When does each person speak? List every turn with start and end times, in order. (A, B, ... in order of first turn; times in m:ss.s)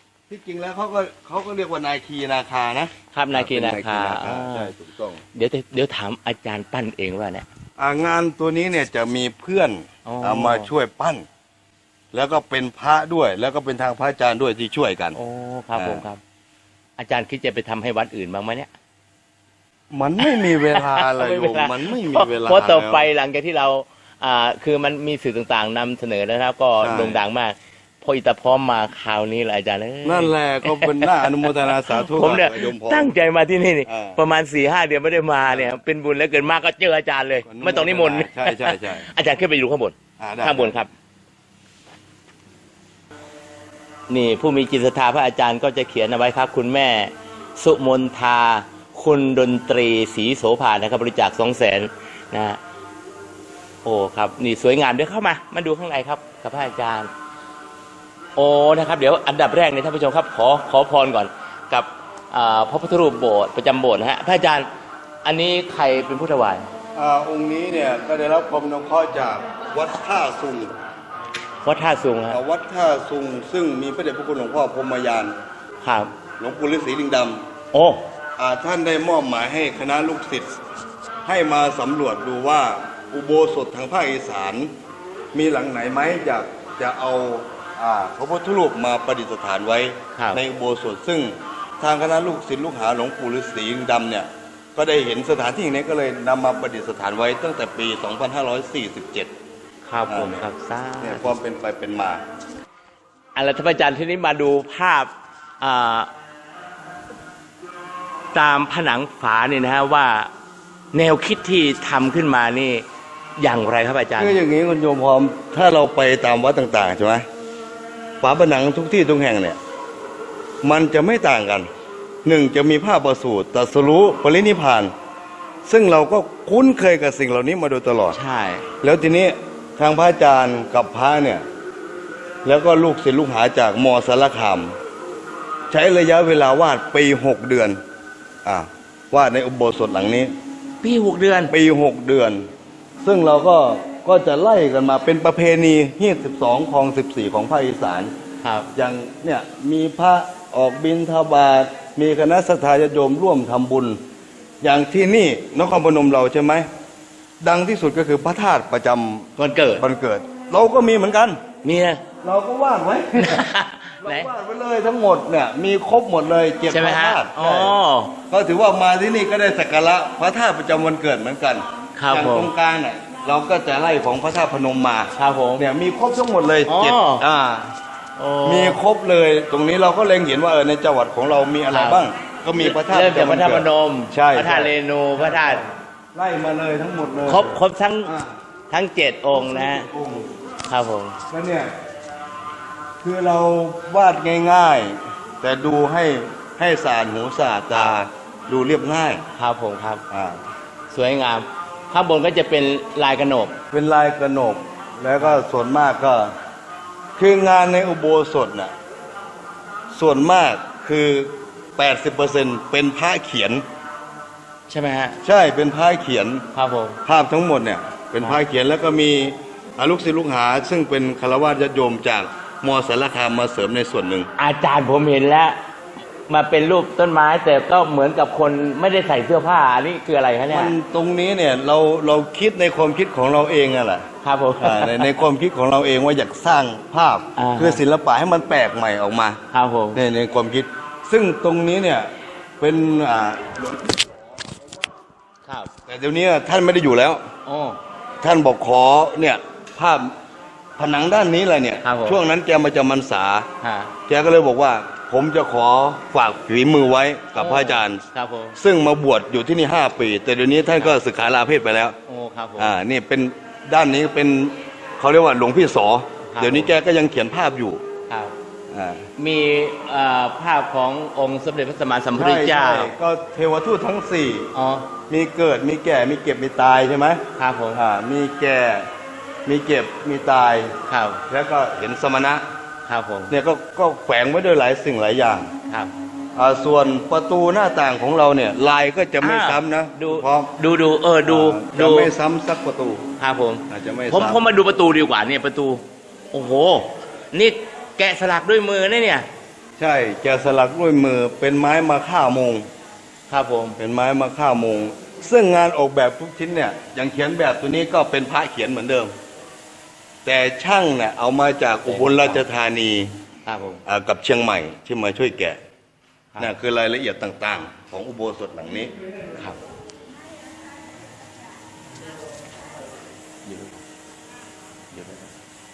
0:00.3-0:05.2 A
0:03.1-0:04.7 B
0:05.3-0:07.5 B
0:07.8-0:11.3 A
0:10.0-0:10.7 B
0:12.1-0:15.2 A
0:15.1-0:16.2 B
0:15.8-0:16.0 A
0:17.0-0:18.7 B
0:19.9-0:23.1 A
0:20.2-0:40.9 B
0:26.8-0:27.2 A
0:30.0-0:33.1 A
0:33.9-0:34.2 A
0:35.5-0:35.8 A
0:37.5-0:39.1 A
0:40.2-0:40.8 A
0:44.1-0:52.6 B
0:53.8-0:57.1 B
0:58.4-1:04.7 B
1:05.2-1:06.7 B
1:07.0-1:10.7 A
1:11.6-1:12.4 B
1:12.3-1:15.3 A
1:15.8-1:16.1 B
1:16.4-1:17.5 A
1:17.7-1:18.0 B
1:18.4-1:20.5 A
1:21.3-1:24.7 A
1:25.3-1:39.3 A
1:30.2-1:30.4 B
1:39.9-1:41.3 B
1:40.1-1:40.5 A
1:41.0-1:42.2 A
1:43.4-1:46.1 B
1:48.3-1:50.3 B
1:50.9-1:52.8 B
1:53.4-1:54.4 B
1:54.2-1:57.3 A
1:58.2-1:59.6 A
2:00.6-2:01.7 A
2:02.2-2:04.9 A
2:05.6-2:08.2 A
2:08.1-2:08.7 B
2:08.8-2:11.4 A
2:12.4-2:14.8 A
2:15.7-2:17.8 A
2:18.4-2:20.3 A
2:20.8-2:21.5 B
2:21.5-2:22.5 A
2:23.0-2:28.1 A
2:28.4-2:28.7 B
2:28.8-2:34.0 A
2:34.6-2:36.7 A
2:37.4-2:41.4 A
2:39.4-2:39.8 B
2:41.6-2:42.1 B
2:42.2-2:43.5 A
2:43.2-2:44.3 B
2:44.0-2:47.8 A
2:46.7-2:48.2 B
2:48.3-2:57.8 A
2:52.0-2:52.5 B
2:55.2-2:55.6 B
2:56.7-2:57.2 B
2:58.2-2:58.8 B
2:58.4-3:08.4 A
3:01.7-3:02.0 B
3:02.6-3:05.6 B
3:07.3-3:08.1 B
3:08.7-3:09.9 B
3:09.3-3:10.3 A
3:10.7-3:11.2 B
3:11.3-3:11.7 A
3:13.0-3:19.2 A
3:17.7-3:18.0 B
3:19.4-3:20.0 B
3:20.1-3:20.4 A
3:20.9-3:23.6 B
3:23.7-3:26.3 A
3:27.2-3:28.7 A
3:29.9-3:33.6 A
3:34.7-3:35.2 B
3:35.2-3:36.4 A
3:36.5-3:37.0 B
3:37.0-3:44.3 A
3:44.4-3:45.6 B
3:46.3-3:50.7 B
3:50.5-3:54.1 A
3:54.2-3:55.2 B
3:54.6-3:59.4 A
3:57.4-3:57.8 B
3:59.5-4:00.0 B
3:59.9-4:04.1 A
4:05.4-4:05.7 B
4:05.9-4:07.3 A
4:07.5-4:07.8 B
4:08.2-4:10.2 A
4:10.8-4:13.5 A
4:11.8-4:12.2 B
4:13.6-4:13.9 B
4:14.1-4:18.0 A
4:17.4-4:18.6 B
4:18.6-4:22.0 A
4:22.1-4:22.7 B
4:22.6-4:27.8 A
4:26.3-4:26.7 B
4:28.1-4:28.4 B
4:28.7-4:29.1 A
4:29.2-4:32.9 B
4:32.2-4:34.5 A
4:34.5-4:34.9 B
4:35.1-4:38.9 A
4:37.4-4:37.8 B
4:39.5-4:40.8 A
4:40.9-4:41.2 B
4:41.3-4:42.4 A
4:42.9-4:43.3 B
4:43.3-4:45.5 A
4:46.4-4:50.5 A
4:49.2-4:52.1 B
4:51.3-4:53.1 A
4:53.2-4:59.3 B
4:53.7-4:54.4 A
4:59.8-5:02.7 A
5:03.3-5:03.8 B
5:03.8-5:09.1 A
5:10.2-5:13.2 A
5:11.8-5:12.4 B
5:13.5-5:13.8 B
5:13.8-5:15.6 A
5:16.4-5:18.9 A